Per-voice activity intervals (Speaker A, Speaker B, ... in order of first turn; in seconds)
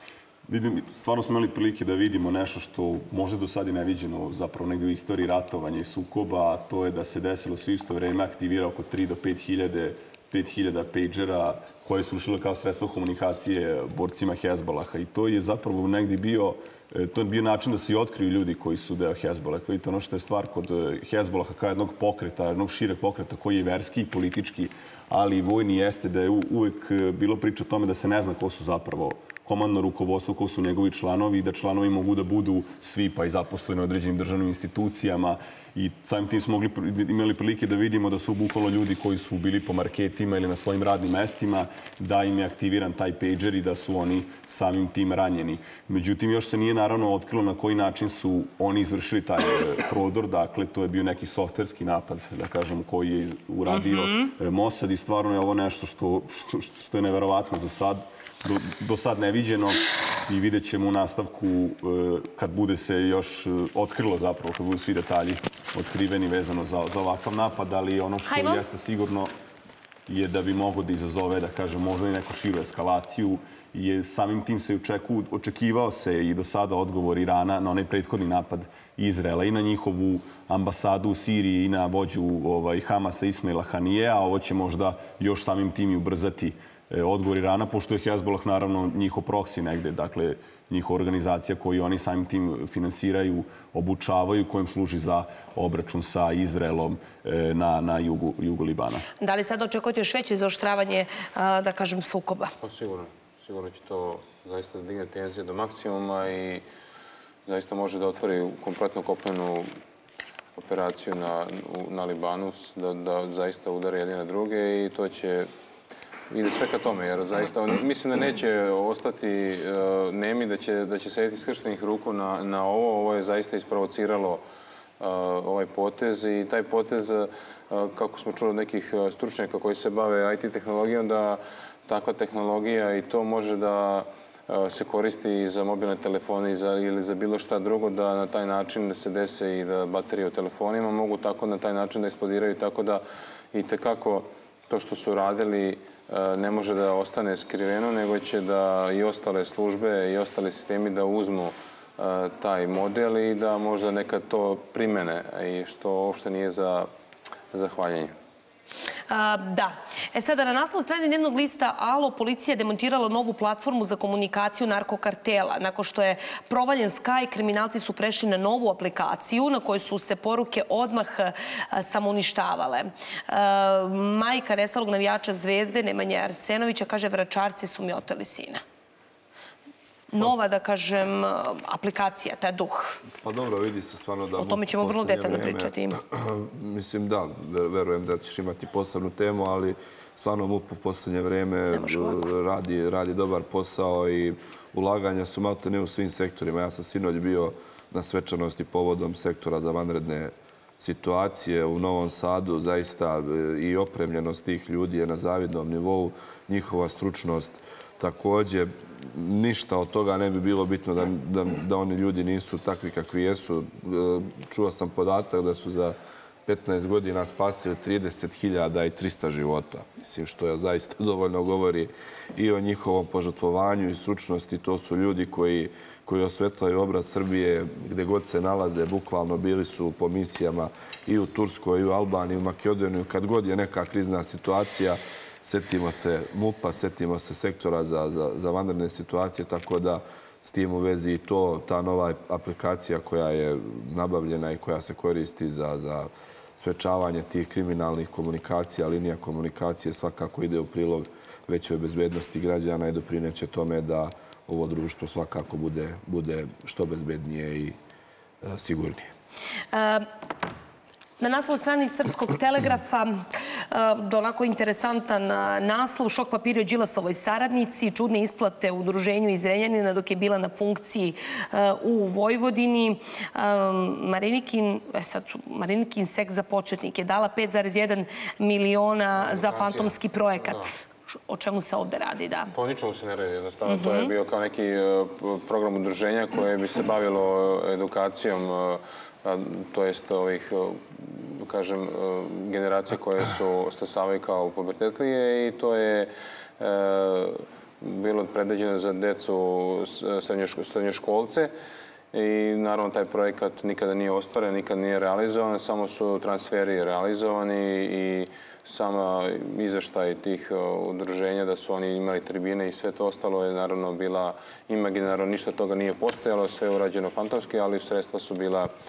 Speaker A: 0.5-69.3, 70.1-99.1
Speaker B: 53.7-54.3, 68.3-68.6, 99.2-102.5, 159.1-178.6, 180.1-183.0, 184.4-186.0, 191.7-192.3, 259.7-260.1, 261.2-282.5, 283.7-284.1
Speaker C: 102.6-106.6, 107.5-109.7, 110.6-115.5, 116.3-124.4, 125.0-156.9, 157.5-158.1, 279.2-280.7, 282.5-301.5, 302.1-318.7
Speaker D: 183.2-216.0, 216.5-257.8, 258.4-259.1